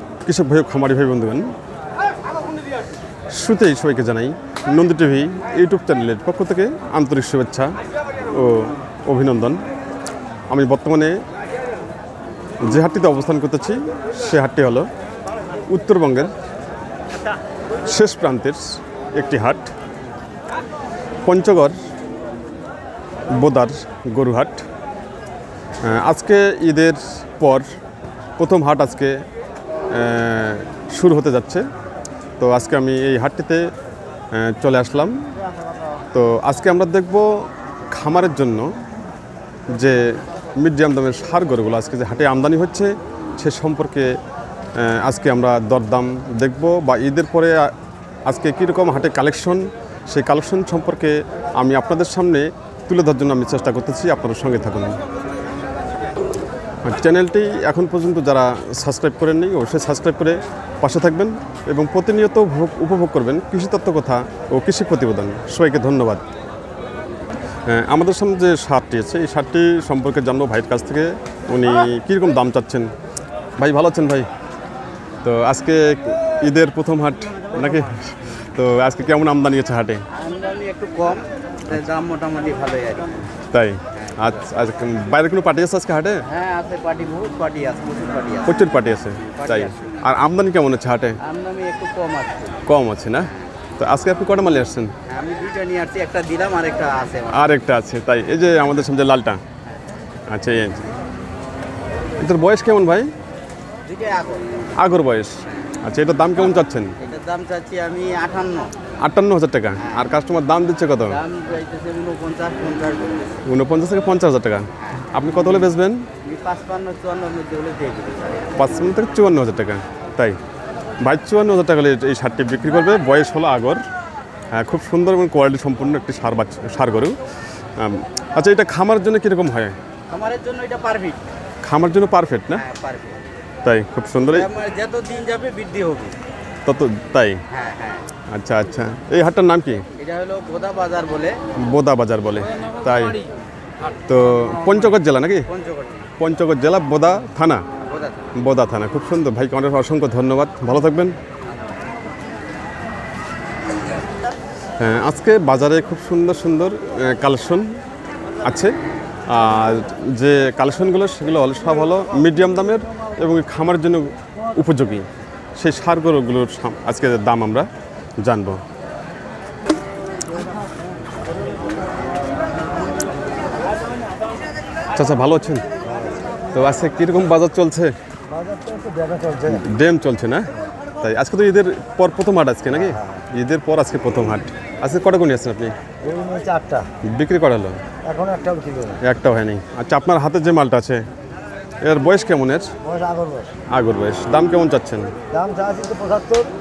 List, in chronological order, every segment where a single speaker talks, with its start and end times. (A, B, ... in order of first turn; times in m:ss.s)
0:00.2-0:01.5 A
0:03.3-0:07.8 A
0:08.3-0:09.6 A
0:10.5-0:11.2 A
0:12.6-0:14.9 A
0:15.7-0:16.3 A
0:17.8-0:19.7 A
0:21.2-0:21.8 A
0:23.3-0:24.6 A
0:25.8-0:27.7 A
0:28.4-0:29.2 A
0:29.9-0:31.6 A
0:32.4-0:33.7 A
0:34.3-0:35.2 A
0:36.1-0:38.7 A
0:39.7-0:44.1 A
0:44.8-0:47.7 A
0:48.3-0:55.0 A
0:56.8-1:06.2 A
1:07.6-1:12.9 A
1:13.6-1:14.3 A
1:15.2-1:20.0 A
1:20.1-1:23.3 B
1:23.5-1:26.2 A
1:23.9-1:24.4 B
1:26.3-1:28.6 B
1:28.4-1:31.2 A
1:29.3-1:29.9 B
1:31.2-1:32.6 B
1:32.6-1:34.9 A
1:35.1-1:37.5 B
1:37.3-1:39.4 A
1:40.3-1:40.9 A
1:42.2-1:43.1 A
1:43.8-1:44.5 B
1:44.8-1:46.9 A
1:47.0-1:48.7 B
1:49.0-1:51.2 A
1:49.8-1:50.1 B
1:51.0-1:53.4 B
1:53.4-1:56.0 A
1:56.2-1:58.5 B
1:58.6-2:00.4 A
2:01.0-2:03.8 A
2:04.5-2:07.2 A
2:07.8-2:09.8 A
2:10.1-2:11.2 B
2:11.6-2:12.6 A
2:12.5-2:13.2 B
2:13.6-2:14.5 A
2:14.3-2:16.2 B
2:16.6-2:17.4 A
2:17.5-2:18.1 B
2:18.3-2:19.8 A
2:20.0-2:21.4 B
2:21.6-2:23.2 A
2:24.1-2:25.5 A
2:25.5-2:26.1 B
2:26.2-2:27.6 A
2:27.8-2:28.3 B
2:28.4-2:31.2 A
2:34.8-2:37.7 A
2:38.4-2:38.7 A
2:39.3-2:47.7 A
2:48.2-2:48.6 A
2:54.9-2:55.6 A
2:56.5-2:57.9 A
2:58.3-2:59.6 C
2:59.5-3:00.5 A
3:01.0-3:05.7 A
3:02.7-3:03.2 C
3:06.0-3:06.8 C
3:07.1-3:07.8 A
3:08.0-3:09.0 C
3:09.0-3:11.0 A
3:11.8-3:12.7 A
3:12.8-3:13.5 C
3:13.7-3:15.1 A
3:15.3-3:16.5 C